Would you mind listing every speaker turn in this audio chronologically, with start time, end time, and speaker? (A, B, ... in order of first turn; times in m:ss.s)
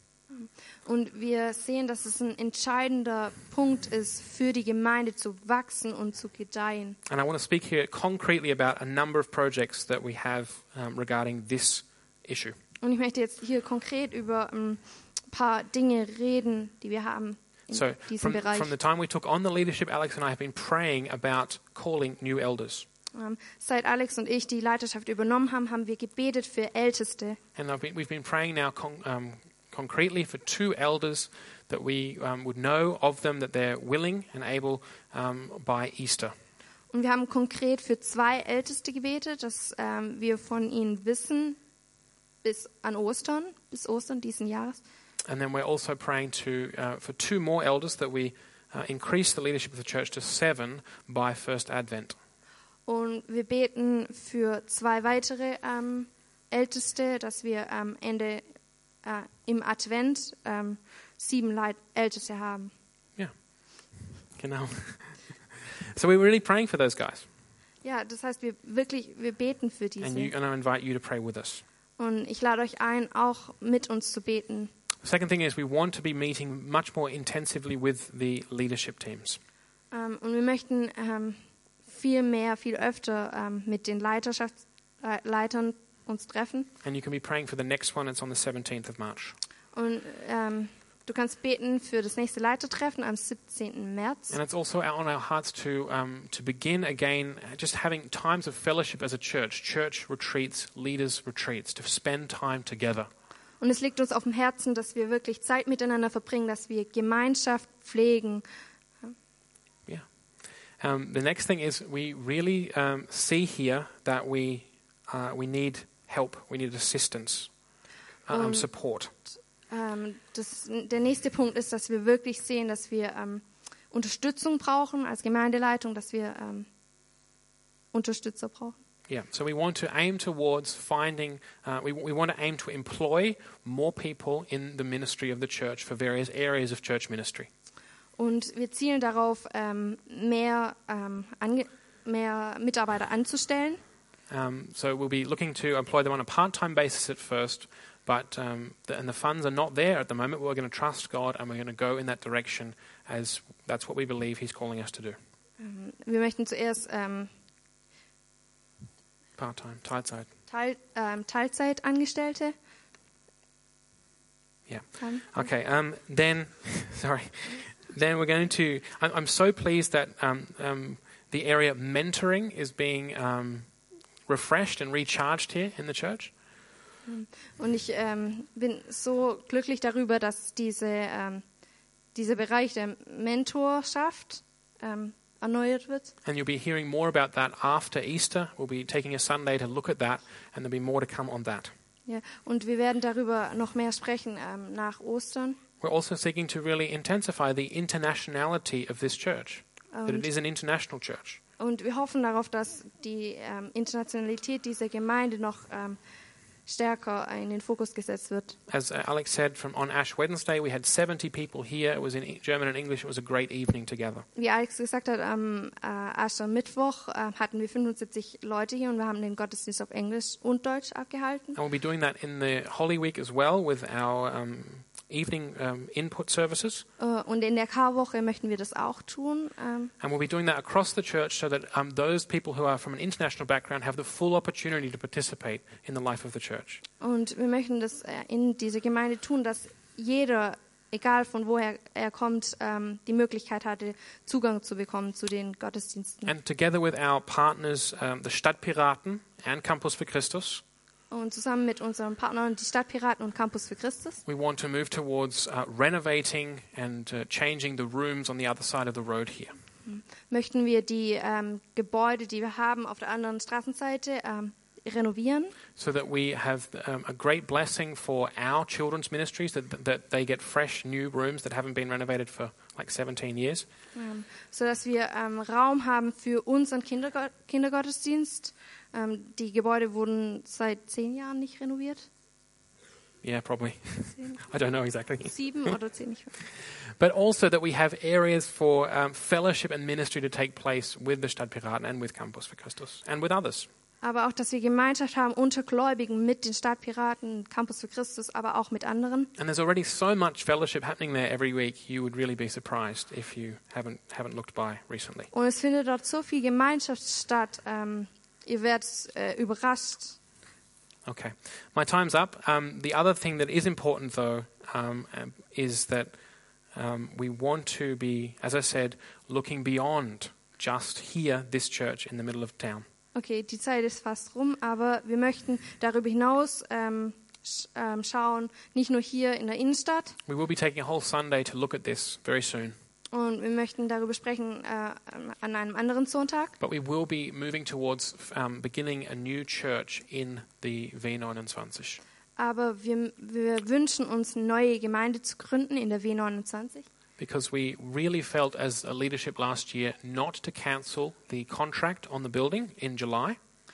0:00.3-0:07.0 A
0:07.1-0:12.6 B
0:12.8-0:18.7 A
0:17.7-0:22.9 B
0:23.1-0:27.4 A
0:27.6-0:36.3 B
0:36.9-0:41.6 A
0:42.4-0:44.8 A
0:45.3-0:52.2 B
0:52.9-0:58.4 A
0:59.0-1:02.7 A
1:04.4-1:07.2 B
1:07.8-1:10.3 A
1:10.0-1:11.6 B
1:12.0-1:14.7 A
1:15.0-1:19.4 B
1:19.9-1:26.7 A
1:26.8-1:29.4 B
1:29.7-1:34.4 A
1:34.3-1:43.1 B
1:43.6-1:48.4 A
1:50.8-1:57.5 B
1:58.3-1:59.1 B
1:58.3-1:58.6 A
1:59.7-2:06.7 A
2:07.9-2:08.8 A
2:09.1-2:17.5 B
2:18.2-2:23.8 A
2:24.3-2:35.2 B
2:35.6-2:37.3 A
2:39.4-2:40.3 B
2:40.5-2:42.5 A
2:44.7-2:53.7 B
2:45.0-2:45.4 A
2:54.3-2:56.3 B
2:57.0-3:01.4 A
3:02.1-3:06.1 A
3:06.2-3:11.7 B
3:12.1-3:15.6 A
3:15.8-3:21.4 B
3:19.9-3:20.2 A
3:21.6-3:26.0 A
3:26.7-3:28.6 A
3:28.7-3:34.2 B
3:34.4-3:41.6 A
3:41.6-3:46.8 B
3:47.0-3:49.9 A
3:50.0-3:56.8 B
3:57.0-4:06.3 A
4:06.2-4:10.6 B
4:11.1-4:14.2 A
4:14.2-4:19.5 B
4:19.8-4:25.5 A
4:25.8-4:33.7 B
4:33.9-4:42.1 A
4:43.2-4:45.7 B
4:45.2-4:46.4 A
4:47.0-4:53.7 B
4:54.0-4:59.3 A
4:59.4-5:05.3 B
5:05.3-5:10.2 A
5:11.0-5:16.1 B
5:16.7-5:22.8 B
5:23.1-5:30.2 A
5:30.2-5:32.7 B
5:33.1-5:36.5 A
5:36.6-5:42.0 B
5:42.4-5:46.8 A
5:47.2-5:53.4 B